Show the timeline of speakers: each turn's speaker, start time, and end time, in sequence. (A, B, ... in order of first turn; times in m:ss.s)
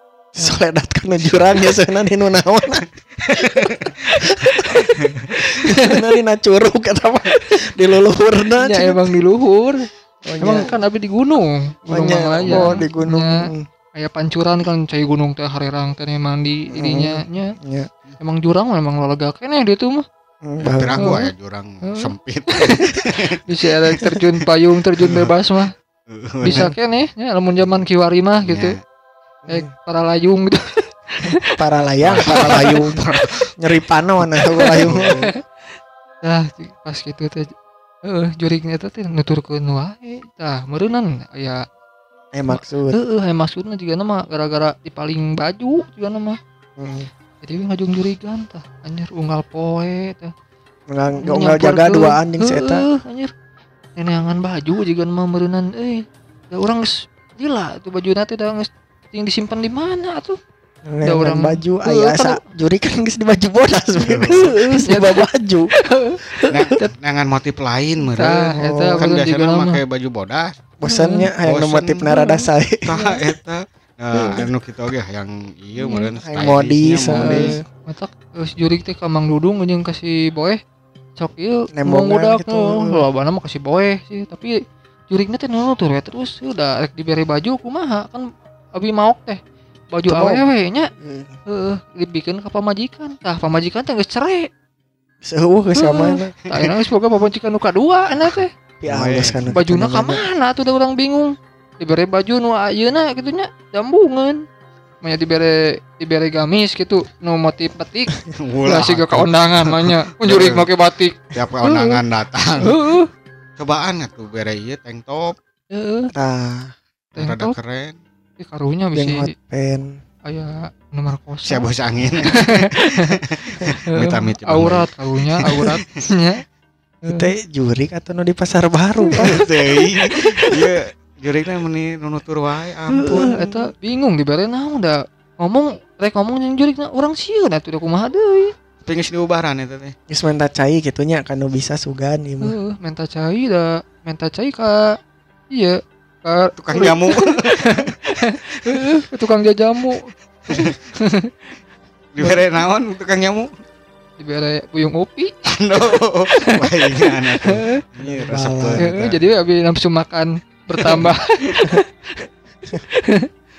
0:00.3-0:02.8 A
0:01.2-0:01.7 B
0:03.2-0:05.4 B
0:03.4-0:09.1 A
0:05.7-0:06.1 C
0:08.6-0:09.8 C
0:10.2-0:10.7 A
0:10.4-0:13.4 C
0:11.9-0:13.6 A
0:12.4-0:12.9 B
0:14.0-0:17.5 C
0:16.7-0:17.9 A
0:18.2-0:20.0 C
0:20.4-0:21.1 A
0:20.6-0:23.4 B
0:21.0-0:21.3 C
0:21.8-0:25.7 C
0:25.0-0:25.3 B
0:26.1-0:26.7 B
0:26.4-0:26.7 A
0:26.4-0:28.7 C
0:28.4-0:28.7 B
0:29.5-0:31.4 C
0:31.5-0:33.0 A
0:32.0-0:33.5 B
0:32.4-0:32.8 C
0:33.6-0:35.2 A
0:34.2-0:35.3 B
0:34.7-0:35.6 C
0:36.2-0:37.5 C
0:38.0-0:41.6 C
0:42.3-0:43.0 A
0:42.5-0:46.4 C
0:46.8-0:47.1 A
0:47.4-0:50.3 C
0:50.9-0:52.8 A
0:51.2-0:53.3 C
0:54.0-1:00.4 C
1:00.9-1:05.7 A
1:01.0-1:02.4 C
1:04.0-1:04.4 B
1:04.3-1:06.9 C
1:06.5-1:10.6 B
1:08.0-1:09.8 C
1:08.5-1:09.0 A
1:10.8-1:13.0 A
1:10.8-1:11.3 C
1:11.4-1:12.3 B
1:12.8-1:17.6 B
1:12.9-1:13.2 C
1:14.2-1:14.4 A
1:15.8-1:16.1 C
1:16.2-1:17.6 A
1:17.2-1:20.6 C
1:21.2-1:24.5 C
1:21.7-1:23.0 A
1:25.1-1:29.4 C
1:29.9-1:30.9 C
1:30.0-1:30.4 A
1:31.0-1:31.4 A
1:31.5-1:34.5 C
1:35.2-1:36.6 A
1:35.7-1:38.5 C
1:38.8-1:40.3 A
1:38.8-1:39.6 B
1:39.5-1:44.4 C
1:45.0-1:52.0 C
1:48.3-1:50.7 B
1:51.3-1:52.8 B
1:52.6-1:53.1 C
1:53.6-1:55.4 B
1:55.7-1:56.1 C
1:56.1-1:56.7 A
1:57.1-1:58.0 B
1:57.2-1:57.6 C
1:58.4-1:59.3 C
1:58.9-1:59.9 A
2:00.2-2:01.7 C
2:01.4-2:05.9 B
2:02.3-2:03.2 C
2:03.9-2:06.4 C
2:07.0-2:07.3 C
2:07.1-2:09.5 A
2:09.1-2:09.3 C
2:09.1-2:13.7 B
2:12.9-2:18.5 C
2:18.8-2:19.9 B
2:20.1-2:22.6 A
2:22.4-2:24.9 C
2:25.5-2:31.4 C
2:26.6-2:27.9 B
2:32.1-2:33.5 B
2:34.2-2:35.3 C
2:35.5-2:39.2 B
2:36.4-2:37.8 C
2:38.0-2:38.9 A
2:38.8-2:43.3 C